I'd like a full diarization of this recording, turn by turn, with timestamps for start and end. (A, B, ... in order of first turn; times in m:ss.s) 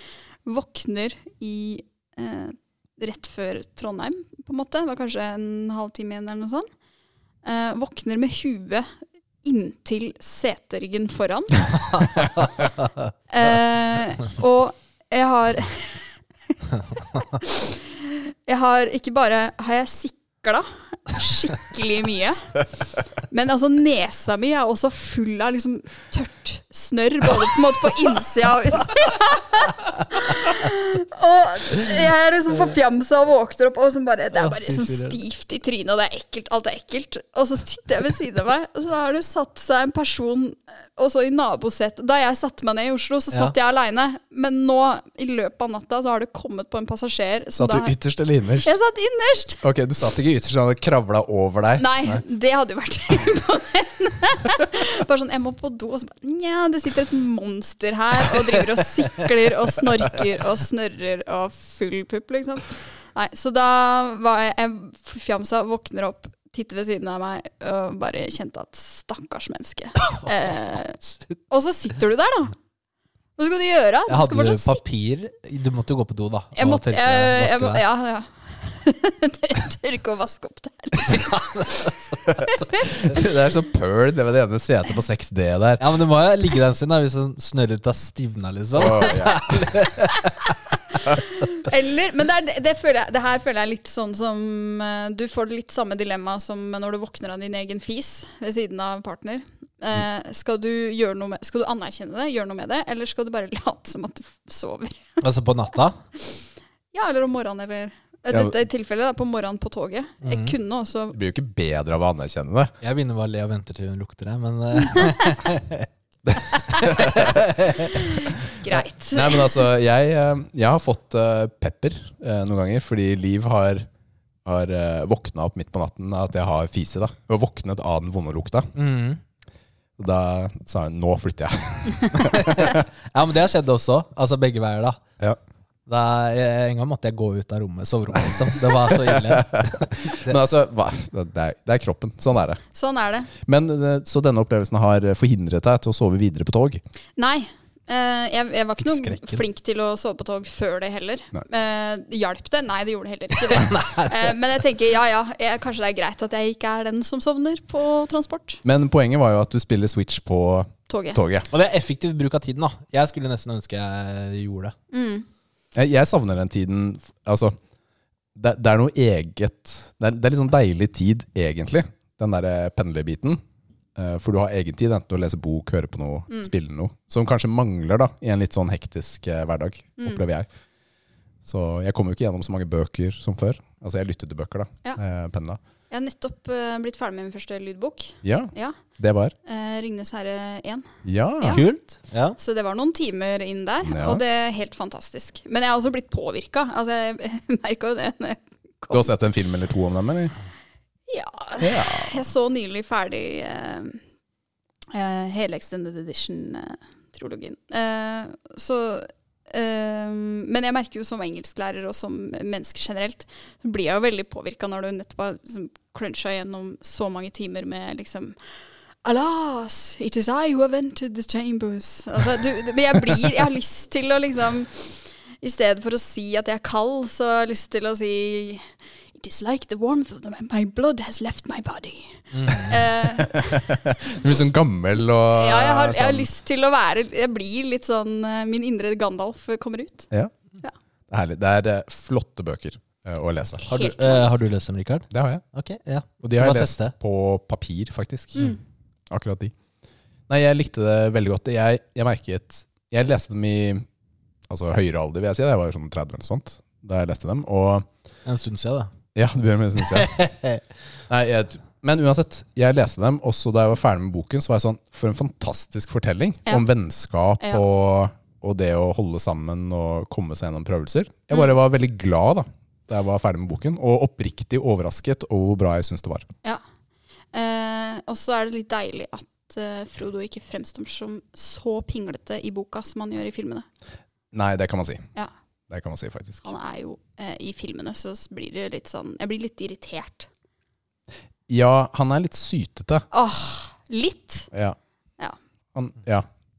0:00.4-0:06.7 A
0:07.4-0:08.9 A
0:09.4-0:12.3 A
0:12.2-0:12.9 B
0:13.3-0:22.5 A
0:23.2-0:47.9 A
0:34.3-0:35.2 B
0:47.6-0:48.7 C
0:48.6-0:49.6 A
0:49.6-0:52.2 C
0:51.8-1:12.5 A
1:13.4-1:14.8 A
1:14.1-1:17.8 B
1:16.6-1:22.9 A
1:21.1-1:21.9 B
1:22.3-1:25.8 C
1:25.8-1:30.5 B
1:28.8-1:29.8 C
1:28.9-1:29.5 A
1:30.0-1:45.2 A
1:45.2-1:46.0 B
1:46.9-1:51.2 A
1:50.2-1:50.6 B
1:51.1-1:52.7 C
1:52.8-1:55.9 B
1:54.9-1:55.4 A
1:56.3-1:57.4 C
1:56.5-1:57.0 A
1:56.7-1:57.9 B
1:57.8-1:59.6 A
1:58.7-2:03.9 C
2:04.4-2:08.7 C
2:08.7-2:09.2 B
2:10.0-2:12.8 C
2:12.1-2:15.0 B
2:15.9-2:20.4 B
2:18.9-2:22.6 C
2:22.7-2:23.3 A
2:23.4-2:26.8 C
2:27.2-2:38.6 A
2:28.8-2:29.4 B
2:33.5-2:34.3 B
2:38.6-2:41.5 C
2:40.9-2:41.2 A
2:41.5-2:44.7 B
2:44.9-2:45.2 A
2:45.7-2:47.6 C
2:48.3-2:53.4 C
2:54.0-3:00.5 C
3:01.4-3:05.6 C
3:05.9-3:08.8 A
3:08.2-3:09.3 C
3:09.4-3:11.7 A
3:11.0-3:11.6 C
3:11.5-3:12.4 B
3:12.4-3:19.1 A
3:13.8-3:14.2 C
3:18.9-3:20.3 C
3:21.1-3:24.0 A
3:21.6-3:22.2 C
3:24.9-3:38.4 A
3:39.0-3:53.9 A
3:52.3-3:52.8 B
3:53.1-3:56.3 C
3:55.3-4:00.1 A
4:01.1-4:03.6 C
4:03.6-4:04.4 A
4:03.7-4:06.9 B
4:05.1-4:05.4 C
4:06.2-4:08.5 C
4:09.1-4:09.5 C
4:10.3-4:13.8 C
4:14.5-4:17.9 C
4:18.2-4:18.9 B
4:19.1-4:20.1 C
4:19.9-4:20.6 B
4:21.1-4:36.3 C
4:37.3-4:43.6 A
4:44.3-4:45.1 C
4:45.7-4:46.4 C
4:46.4-4:50.3 A
4:51.5-4:53.0 C
4:53.1-4:54.5 A
4:55.7-4:56.3 C